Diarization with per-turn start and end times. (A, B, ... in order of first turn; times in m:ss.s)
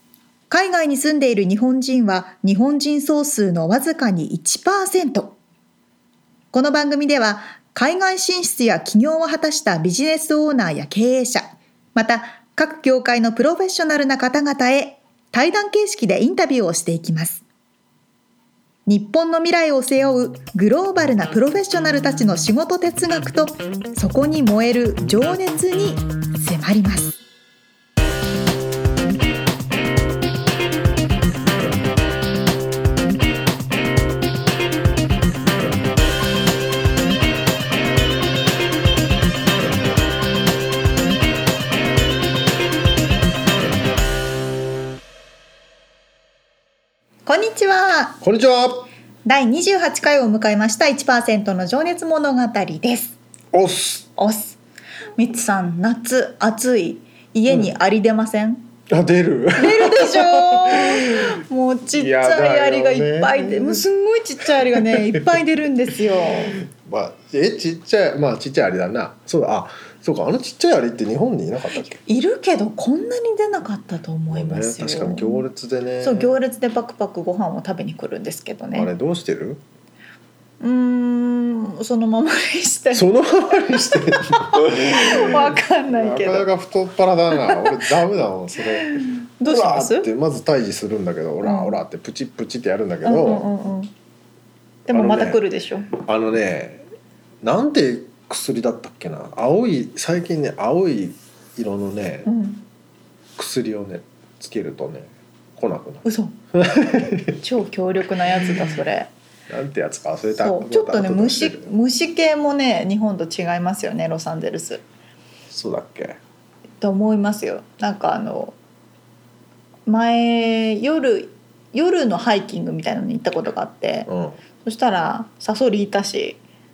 0:00.5-0:05.4 A
0:06.5-0:17.4 A
0:18.8-0:27.2 A
0:47.2-0:48.2 A
0:48.2-0:48.9 B
0:49.2-0:53.2 A
0:53.5-0:54.1 B
0:54.2-0:54.6 A
0:55.2-0:58.7 A
0:58.9-1:01.3 B
0:59.6-1:06.6 A
1:01.9-1:03.8 B
1:04.4-1:05.4 B
1:06.4-1:12.0 B
1:11.9-1:15.5 A
1:14.3-1:16.4 B
1:16.0-1:18.9 A
1:18.7-1:19.6 B
1:20.6-1:26.5 A
1:22.9-1:33.4 B
1:27.3-1:27.8 A
1:28.6-1:30.1 A
1:31.4-1:31.8 A
1:33.0-1:33.9 A
1:34.9-1:35.9 A
1:34.9-1:35.4 B
1:36.0-1:36.8 B
1:37.4-1:42.3 B
1:42.2-1:42.6 A
1:43.4-1:47.4 B
1:46.0-1:46.4 A
1:46.9-1:49.1 A
1:49.5-1:51.7 B
1:50.4-1:54.8 A
1:55.5-1:56.2 B
1:56.8-1:58.6 A
1:59.8-2:04.1 A
2:04.1-2:04.4 B
2:04.6-2:06.4 A